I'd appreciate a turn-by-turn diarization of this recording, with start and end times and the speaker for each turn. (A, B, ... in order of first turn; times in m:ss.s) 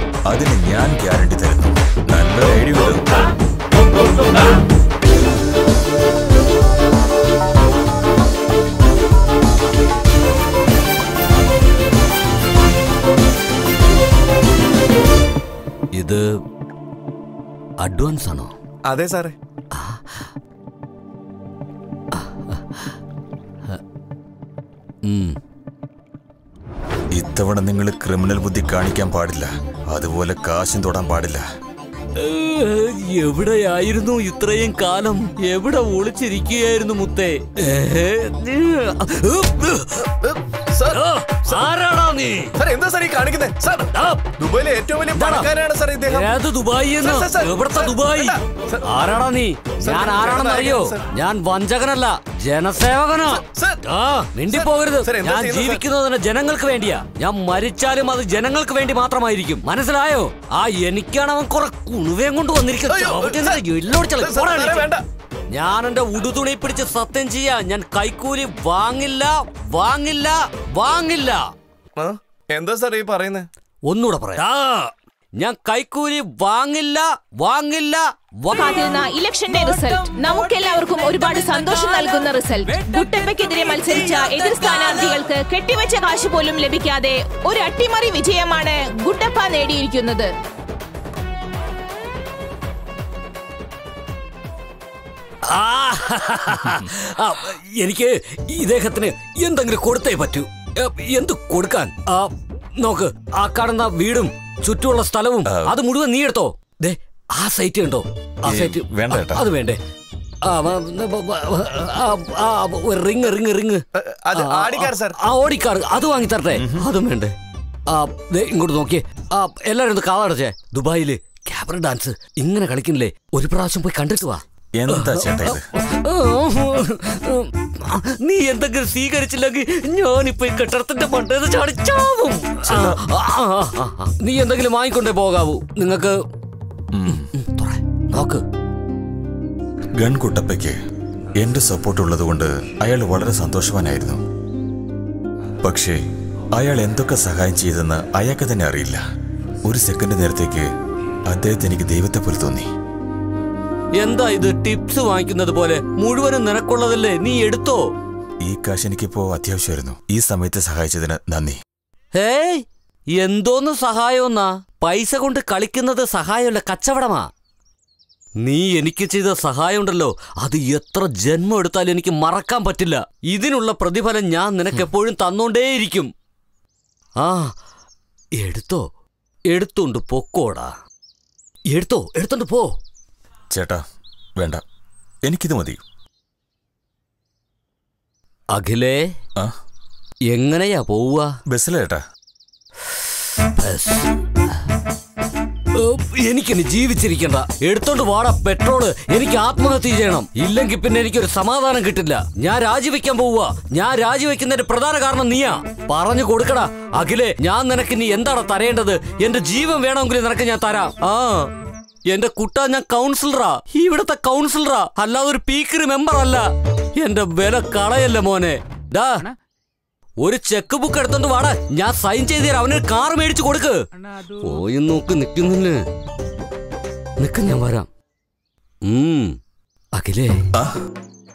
0:00.3-0:03.0 A
0:16.0-0:16.2 B
0:17.8-0:18.5 B
0:18.9-0:19.4 C
0:22.2-0:22.5 B
0:25.1-0:25.4 B
0:27.1-0:31.4 A
0:32.1-0:40.3 B
0:40.7-0:41.6 C
0:40.9-0:42.6 B
0:42.6-0:46.3 C
0:43.9-0:44.3 B
0:45.1-0:45.5 B
0:46.0-1:04.9 B
0:47.0-0:48.9 C
0:49.8-0:51.0 C
0:53.3-0:53.8 C
0:54.5-0:55.8 C
1:02.9-1:03.6 C
1:04.2-1:05.0 C
1:05.5-1:11.5 B
1:12.0-1:13.5 C
1:13.9-1:18.9 B
1:18.8-1:30.3 D
1:35.4-1:49.8 B
1:45.5-1:45.8 A
1:48.5-1:49.5 A
1:50.4-1:57.3 B
1:54.0-1:55.2 C
1:56.6-1:56.9 A
1:57.9-2:16.2 B
2:04.7-2:05.7 A
2:12.7-2:13.0 A
2:16.9-2:17.3 A
2:17.1-2:18.4 B
2:20.0-2:20.8 A
2:21.4-2:24.2 A
2:25.6-2:26.0 A
2:26.6-2:29.0 A
2:29.7-2:30.7 A
2:31.3-2:32.7 A
2:34.0-2:37.9 B
2:38.4-2:41.6 A
2:42.1-2:42.6 B
2:43.2-2:47.3 B
2:48.4-2:56.1 B
2:57.2-2:57.5 B
2:58.4-2:58.9 B
2:59.5-3:00.7 B
3:01.7-3:02.7 B
3:03.5-3:03.8 A
3:04.4-3:04.6 A
3:05.2-3:05.8 A
3:08.6-3:09.0 B
3:10.3-3:11.3 B
3:11.5-3:12.0 A
3:13.4-3:14.2 B
3:15.7-3:31.5 B
3:32.1-3:39.2 B
3:40.2-3:43.8 B
3:44.3-3:45.8 B
3:47.2-3:47.9 B
3:48.8-3:49.4 B
3:50.0-3:50.4 B